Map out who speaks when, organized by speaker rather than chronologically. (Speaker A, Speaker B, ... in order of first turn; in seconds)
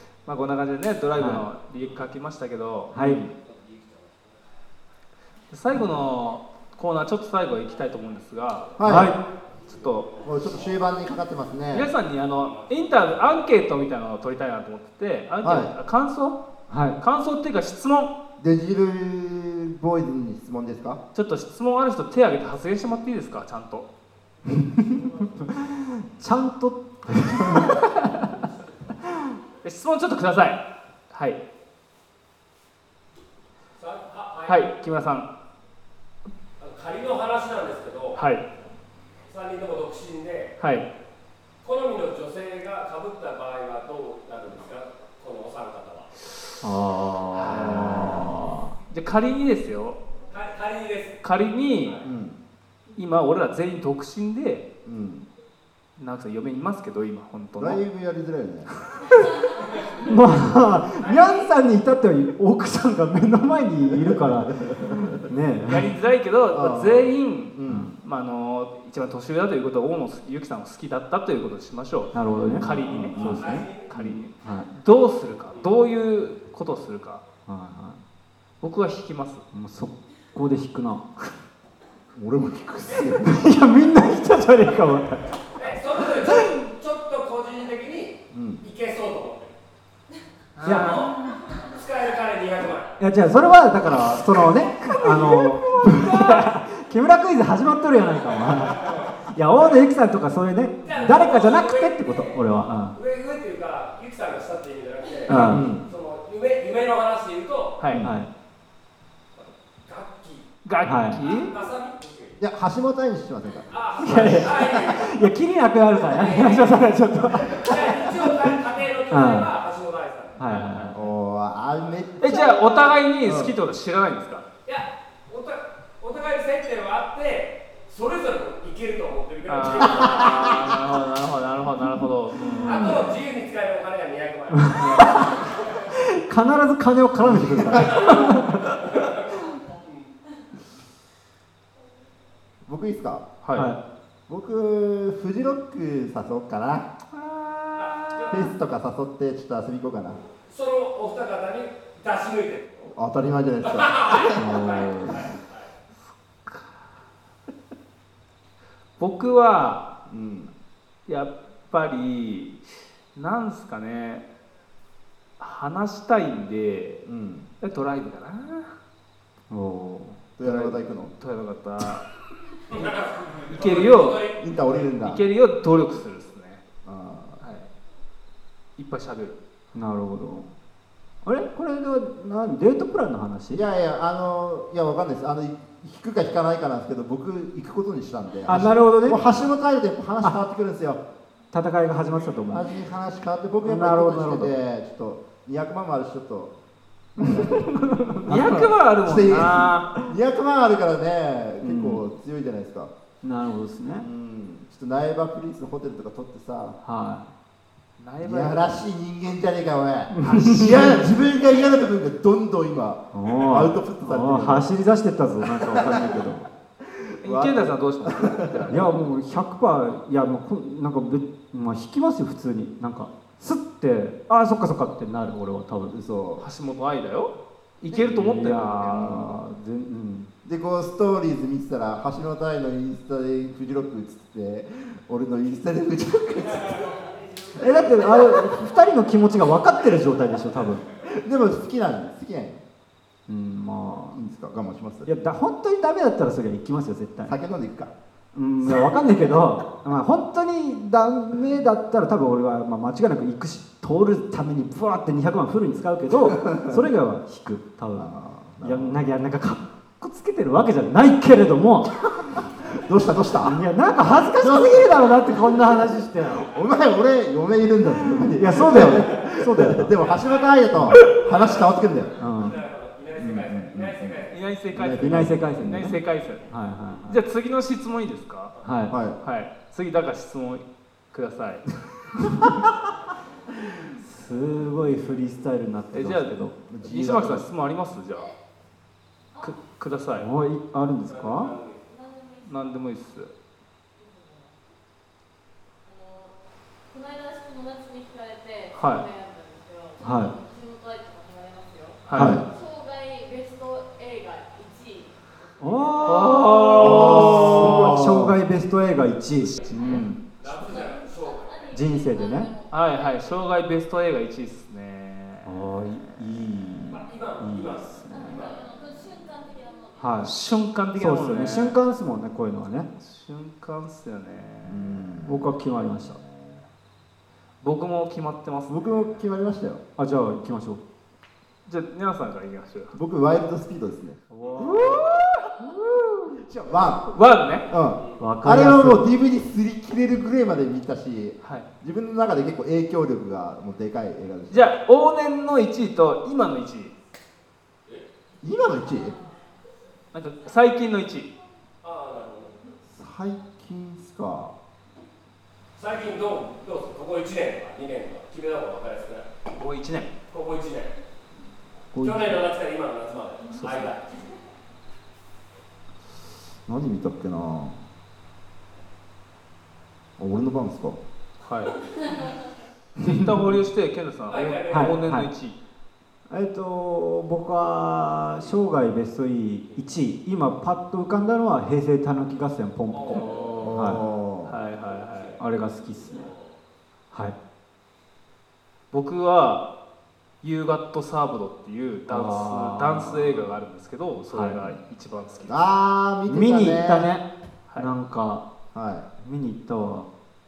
Speaker A: 0.3-3.0, 5.5-9.1, 9.7-10.1, 11.7-16.4, 17.0-18.1, 21.1-23.9, 29.6-31.4, 34.5-35.3, 38.2-38.5, 40.6-40.9, 47.3-50.0, 51.2-52.0, 53.0-54.7, 56.0-57.8, 58.9-59.3, 65.7-77.2, 78.6-79.5, 90.6-91.3, 95.2-96.3, 107.8-108.1, 110.7-111.5, 120.4-121.0, 122.2-124.5, 129.5-133.1, 143.4-143.7, 147.2-148.3, 156.5-156.8, 159.0-159.9, 161.1-162.6, 163.2-164.3, 165.4-167.1, 167.6-168.8, 170.4-172.1, 173.5-174.3, 175.0-176.6, 177.4-177.7, 178.8-179.4, 198.3-199.9, 208.0-208.6, 210.2-211.0, 217.2-218.9, 226.4-229.1, 274.3-276.5, 277.1-278.6, 279.1-282.1, 285.9-288.3, 289.4-290.3, 292.4-293.3, 298.8-299.1, 302.1-302.4, 306.0-308.0, 309.7-310.1, 312.7-315.7, 320.2-321.8, 323.0-325.3, 327.6-329.1, 331.7-332.9, 334.6-335.7, 337.1-337.7, 341.4-341.7, 344.5-346.9, 350.1-351.3, 359.5-360.1, 363.5-363.9, 371.4-371.8, 373.0-375.6, 383.1-385.4, 388.9-389.7, 390.4-395.7
Speaker B: 1.2-1.4, 2.9-3.2, 8.8-9.2, 16.7-17.0, 24.5-28.3, 46.6-48.7, 60.0-65.9, 67.7-67.9, 72.1-73.7, 74.4-74.7, 77.5-78.0, 79.5-81.1, 83.1-85.3, 86.1-86.6, 90.6-91.3, 93.0-103.0, 105.3-105.7, 108.0-108.3, 110.8-111.2, 114.0-118.6, 119.1-119.5, 120.4-121.0, 132.4-133.1, 134.5-138.8, 143.5-143.8, 154.3-155.3, 169.5-170.2, 179.8-180.5, 181.2-183.6, 188.5-189.3, 191.5-192.8, 193.6-194.5, 197.2-198.7, 201.6-202.0, 203.2-204.1, 206.8-207.3, 210.1-211.0, 213.1-216.4, 218.7-225.9, 227.9-230.3, 237.5-240.9, 243.3-244.2, 245.1-247.4, 248.3-262.4, 263.4-266.5, 268.1-269.9, 270.7-271.0, 272.2-272.6, 274.9-277.2, 278.6-278.9, 283.8-286.6, 290.2-291.5, 300.0-300.3, 302.1-302.4, 305.6-310.2, 311.7-312.5, 315.4-318.4, 320.0-320.3, 320.9-322.9, 325.2-326.2, 330.0-330.8, 334.3-335.1, 335.6-336.2, 338.2-339.1, 373.0-373.5, 374.7-375.3, 376.3-384.1, 385.4-386.3, 392.1-393.5, 394.3-394.8, 396.3-398.5, 399.2-400.1
Speaker C: 3.0-3.3, 8.8-9.2, 10.2-11.9, 15.4-15.7, 18.4-21.0, 47.7-48.4, 52.0-52.4, 54.9-55.3, 57.6-58.7, 63.9-65.2, 66.5-68.0, 72.3-74.2, 82.1-83.5, 88.3-88.6, 105.3-105.9, 107.9-108.2, 112.4-114.7, 120.9-123.5, 130.0-130.3, 137.2-138.1, 142.7-143.3, 144.3-146.9, 148.3-150.2, 152.9-154.5, 160.1-160.5, 167.1-167.5, 170.4-171.1, 174.4-175.2, 176.8-177.4, 183.5-191.0, 192.5-196.6, 197.2-197.8, 199.0-202.9, 204.0-206.8, 208.2-214.7, 215.5-218.7, 225.9-226.5, 228.9-229.4, 230.4-237.0, 237.8-238.2, 240.9-242.6, 244.1-245.1, 247.2-247.9, 256.4-256.8, 257.9-259.1, 262.7-263.6, 264.3-265.8, 266.4-272.2, 273.2-275.9, 278.9-279.2, 286.7-287.5, 302.1-302.5, 306.8-308.4, 324.6-325.5, 328.7-329.8, 332.9-334.6, 336.4-337.1, 337.7-344.7, 348.4-349.2, 352.9-354.6, 361.9-362.5, 366.7-367.8, 370.2-371.0, 383.6-384.6, 395.5-397.1, 398.7-399.1
Speaker D: 3.5-4.1, 33.8-34.6, 36.6-38.2, 39.3-40.5, 41.6-46.1, 50.3-51.2, 61.0-61.5, 73.4-73.9, 85.6-89.5, 90.7-92.9, 100.8-102.4, 102.9-107.8, 109.4-110.5, 111.3-112.4, 113.7-115.2, 116.0-120.4, 124.7-130.7, 132.6-135.5, 137.9-139.2, 147.8-148.4, 150.4-152.9, 153.7-155.6, 172.7-174.7, 237.0-237.6, 270.0-274.4, 291.1-291.8, 310.4-311.7, 316.9-318.6, 351.8-352.5, 355.8-359.3, 360.3-361.0, 362.0-364.2, 374.3-375.0, 382.9-383.5, 385.0-385.4, 385.9-386.5
Speaker E: 139.5-139.8, 289.3-289.6, 291.9-292.9, 294.0-294.6, 295.8-296.4, 296.9-306.5, 309.6-313.3, 318.1-320.3, 348.9-349.6